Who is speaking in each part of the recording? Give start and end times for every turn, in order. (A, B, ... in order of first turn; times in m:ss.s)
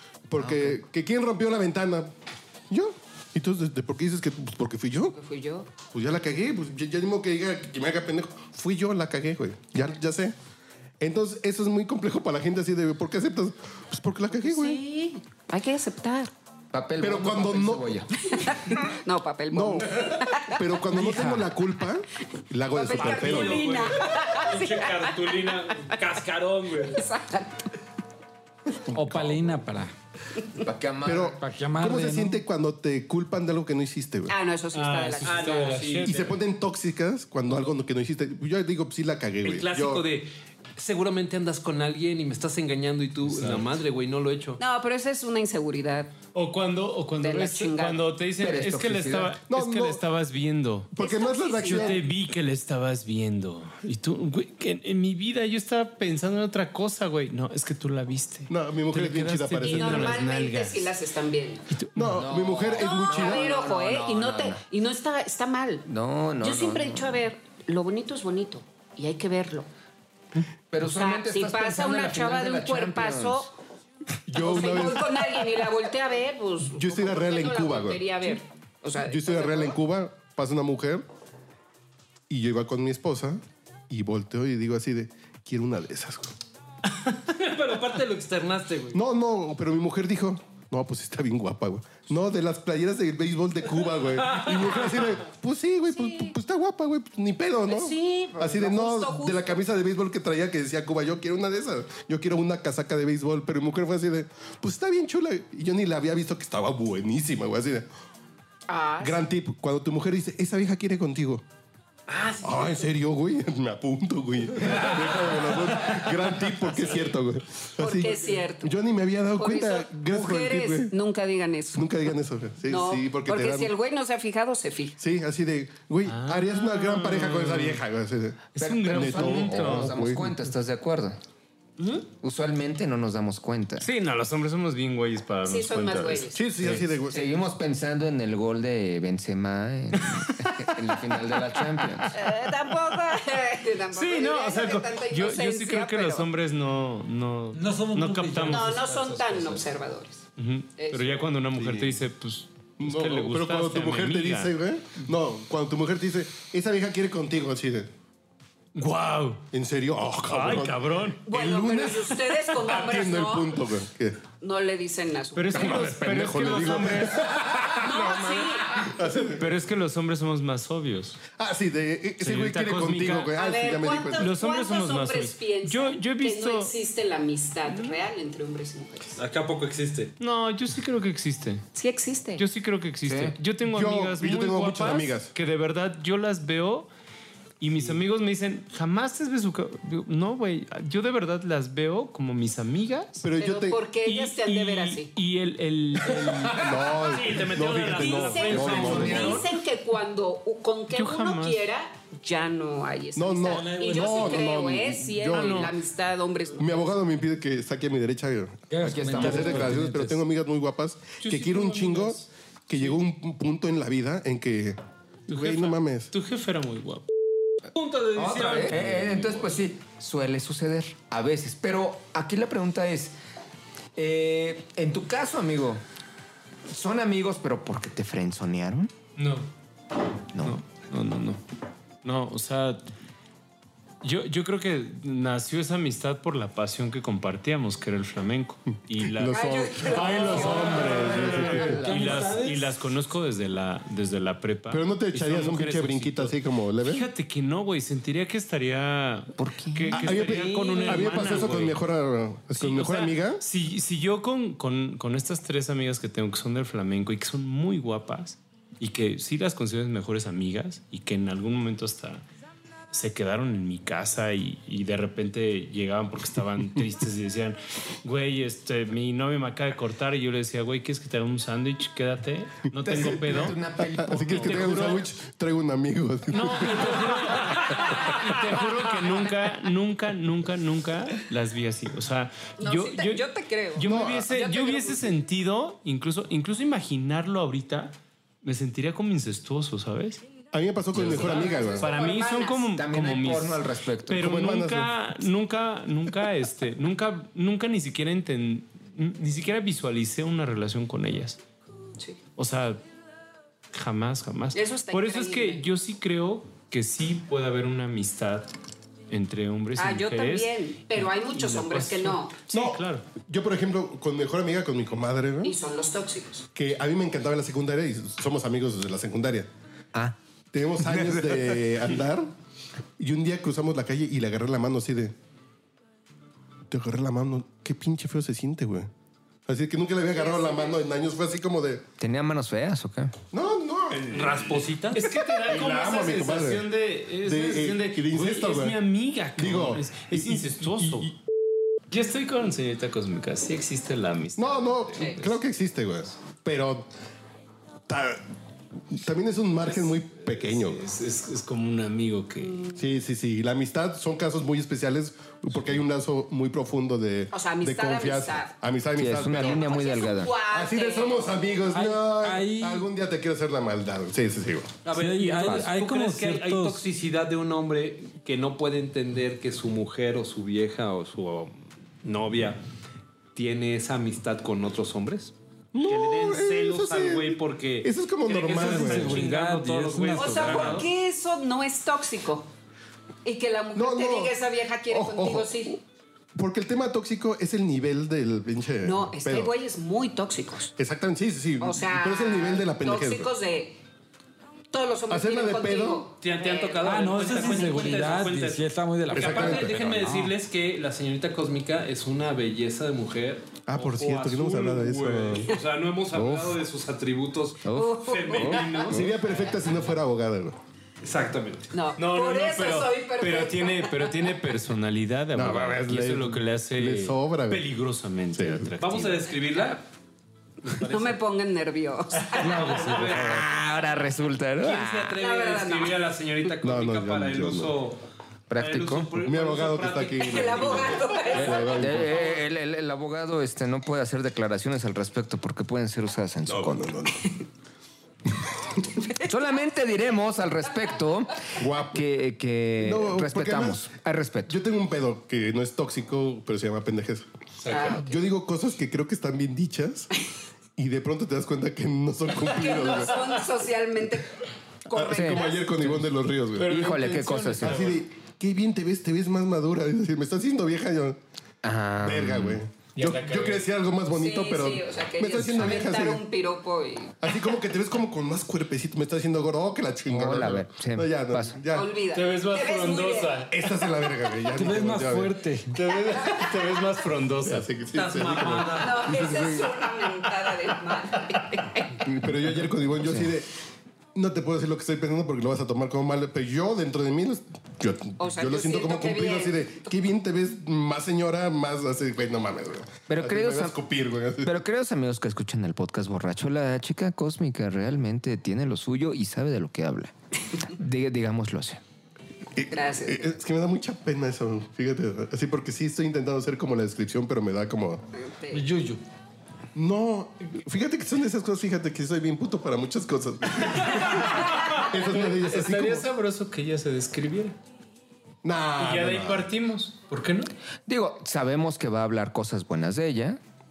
0:00.3-0:02.1 A
0:00.4-0:00.8 B
0:02.7-0:05.1 A
0:05.1-0:05.7 C
0:05.9-0:10.3 A
0:11.0-0:14.8 A
0:14.3-0:16.3 C
0:16.7-0:18.1 B
0:17.0-0:18.0 A
0:18.3-0:20.7 C
0:19.5-0:23.6 A
0:20.9-0:21.5 D
0:22.7-0:26.0 C
0:23.0-0:27.0 E
0:26.9-0:27.7 C
0:28.9-0:29.9 D
0:29.0-0:29.5 A
0:30.6-0:31.4 B
0:31.0-0:34.3 A
0:31.4-0:32.4 D
0:34.3-0:35.9 C
0:34.7-0:36.4 F
0:35.2-0:36.3 E
0:36.0-0:40.0 A
0:39.4-0:44.6 E
0:43.2-0:43.6 F
0:44.6-0:46.1 C
0:46.3-0:50.9 F
0:47.2-0:48.1 C
0:48.4-0:49.4 B
0:49.5-0:50.0 A
0:50.9-0:52.0 A
0:51.0-0:52.0 C
0:51.6-1:00.9 F
0:58.5-1:00.3 A
0:59.7-1:01.6 C
1:01.7-1:02.2 F
1:02.0-1:03.5 A
1:02.1-1:04.6 B
1:02.8-1:05.8 C
1:05.9-1:07.2 B
1:06.4-1:09.7 C
1:10.7-1:13.5 B
1:10.8-1:13.5 C
1:14.3-1:15.3 A
1:14.4-1:19.8 C
1:16.7-1:18.4 A
1:19.0-1:21.0 A
1:22.3-1:26.3 A
1:27.0-1:29.0 E
1:28.9-1:47.9 A
1:35.9-1:36.3 C
1:37.7-1:39.6 C
1:48.7-1:49.2 C
1:49.0-1:51.4 A
1:52.1-1:52.9 E
1:52.4-2:00.9 A
1:57.8-1:58.7 C
1:59.4-2:02.0 C
2:01.7-2:03.7 A
2:02.7-2:05.0 C
2:05.0-2:10.4 A
2:06.0-2:07.8 F
2:08.5-2:10.0 F
2:08.6-2:11.2 B
2:12.2-2:13.8 B
2:13.8-2:16.9 F
2:15.4-2:16.4 C
2:16.3-2:17.3 A
2:17.1-2:22.1 B
2:22.1-2:26.2 C
2:23.9-2:28.7 F
2:27.5-2:29.6 D
2:28.5-2:30.2 C
2:30.4-2:34.5 F
2:30.8-2:31.2 C
2:31.5-2:32.0 A
2:32.8-2:37.9 A
2:38.7-2:39.4 F
2:39.5-2:44.2 A
2:40.3-2:41.2 F
2:41.2-2:43.6 C
2:44.4-2:45.9 C
2:45.3-2:47.7 F
2:45.5-2:49.5 A
2:47.8-2:48.9 C
2:49.3-2:51.2 F
2:51.4-2:54.3 A
2:52.2-2:53.4 F
2:53.3-2:59.2 C
2:54.2-2:56.7 F
2:57.6-2:58.0 F
2:59.2-3:00.1 E
3:00.2-3:01.7 F
3:01.8-3:02.4 C
3:02.4-3:06.9 F
3:03.0-3:03.4 B
3:03.6-3:05.3 A
3:07.6-3:13.2 F
3:13.2-3:13.8 A
3:13.4-3:15.1 C
3:14.0-3:16.8 F
3:16.5-3:19.4 A
3:16.9-3:19.2 E
3:17.6-3:19.4 F
3:18.1-3:26.9 C
3:19.0-3:19.3 B
3:20.9-3:21.7 F
3:23.1-3:25.7 A
3:23.5-3:24.4 D
3:25.3-3:25.8 F
3:26.6-3:34.8 A
3:28.7-3:30.2 D
3:28.8-3:29.8 B
3:31.2-3:32.3 F
3:35.3-3:37.0 F
3:35.3-3:36.1 A
3:37.8-3:39.5 E
3:38.1-3:43.1 B
3:44.0-3:45.8 B
3:46.7-3:48.9 B
3:49.2-3:49.4 F
3:50.3-3:50.6 B
3:50.4-3:51.4 F
3:52.0-3:52.8 F
3:54.0-4:11.8 F
3:59.0-4:01.8 A
3:59.3-4:01.5 C
4:01.1-4:02.7 D
4:01.5-4:02.3 B
4:04.7-4:07.0 A
4:09.4-4:10.3 B
4:09.9-4:13.4 A
4:12.6-4:22.2 F
4:22.9-4:33.6 F
4:32.8-4:35.0 B
4:33.0-4:38.2 A
4:34.2-4:35.1 F
4:36.3-4:50.2 F
4:42.6-4:45.1 C
4:43.8-4:44.3 A
4:50.5-4:51.9 A
4:51.0-4:51.3 B
4:51.0-4:52.7 C
4:51.8-5:01.4 F
4:52.7-4:54.2 B
4:54.1-4:54.9 A
5:02.4-5:02.8 F
5:03.7-5:08.5 F
5:04.5-5:05.6 C
5:09.1-5:13.0 F
5:09.8-5:12.4 C
5:12.5-5:15.5 A
5:15.4-5:16.5 C
5:16.5-5:19.5 A
5:20.5-5:22.3 A
5:20.9-5:21.4 B
5:23.0-5:25.1 A
5:26.7-5:28.9 A
5:29.4-5:31.8 A
5:30.1-5:30.8 C
5:32.0-5:33.1 B
5:33.3-5:34.2 A
5:34.1-5:35.0 E
5:34.9-5:41.1 F
5:35.4-5:36.7 A
5:37.2-5:38.8 A
5:39.4-5:41.1 A
5:41.9-5:45.4 F
5:44.4-5:46.9 A
5:47.9-5:48.2 A
5:48.9-5:50.8 A
5:49.7-5:52.6 F
5:52.8-6:04.7 A
5:57.3-5:58.5 C
5:59.0-6:00.3 B
5:59.3-6:01.6 C
6:01.7-6:02.9 D
6:04.8-6:12.6 E
6:04.9-6:06.8 D
6:13.3-6:20.9 E
6:15.7-6:19.2 A
6:18.5-6:20.8 D
6:20.2-6:22.5 C
6:23.2-6:25.8 C
6:23.7-6:24.4 A
6:24.9-6:25.8 A
6:26.3-6:29.5 A
6:28.8-6:30.7 C
6:30.8-6:33.3 A
6:31.6-6:33.8 C
6:34.7-6:38.2 C
6:35.1-6:36.0 A
6:36.2-6:49.0 E
6:36.8-6:40.3 D
6:39.1-6:39.8 A
6:43.7-6:45.5 A
6:46.1-6:46.6 A
6:47.6-6:48.6 B
6:47.7-6:49.0 C
6:48.9-6:50.6 A
6:51.0-6:51.7 E
6:51.7-6:54.2 C
6:52.0-6:59.3 F
6:55.3-6:57.6 A
6:58.3-6:58.7 A
6:58.8-6:59.8 E
7:00.6-7:01.2 E
7:00.8-7:02.9 C
7:02.4-7:03.7 E
7:02.8-7:05.2 B
7:04.6-7:08.0 E
7:05.2-7:06.1 C
7:06.6-7:07.8 A
7:08.5-7:09.2 B
7:08.5-7:11.1 E
7:09.2-7:12.3 A
7:10.2-7:12.2 C
7:11.3-7:11.6 D
7:11.6-7:16.9 B
7:16.4-7:17.3 A
7:19.2-7:24.5 B
7:21.6-7:22.0 A
7:22.8-7:23.8 A
7:24.5-7:27.3 A
7:27.7-7:28.1 C
7:27.8-7:30.1 A
7:30.8-7:33.3 A
7:32.4-7:34.3 C
7:34.9-7:35.8 C
7:34.9-7:36.8 A
7:35.0-7:35.4 B
7:36.5-7:38.0 F
7:36.6-7:37.9 B
7:37.6-7:41.2 A
7:41.6-7:42.6 B
7:42.0-7:46.2 A
7:43.0-7:43.6 F
7:44.1-7:47.2 C
7:47.2-7:51.9 A
7:50.1-7:51.6 B
7:51.7-7:53.4 C
7:52.1-7:53.5 F
7:53.5-7:55.4 A
7:54.5-7:55.8 D
7:55.7-7:57.7 F
7:56.2-7:56.4 C
7:57.4-7:59.8 A
7:57.9-7:59.4 E
7:58.7-8:02.1 C
8:02.0-8:03.5 A
8:04.1-8:14.6 A
8:08.2-8:09.9 C
8:13.1-8:13.8 B
8:14.4-8:20.1 B
8:20.7-8:21.8 B
8:22.6-8:28.0 A
8:22.7-8:23.3 C
8:28.1-8:28.6 C
8:28.5-8:29.0 D
8:29.7-8:36.0 A
8:33.6-8:37.5 F
8:38.4-8:39.5 A
8:38.8-8:40.5 F
8:40.9-8:43.4 B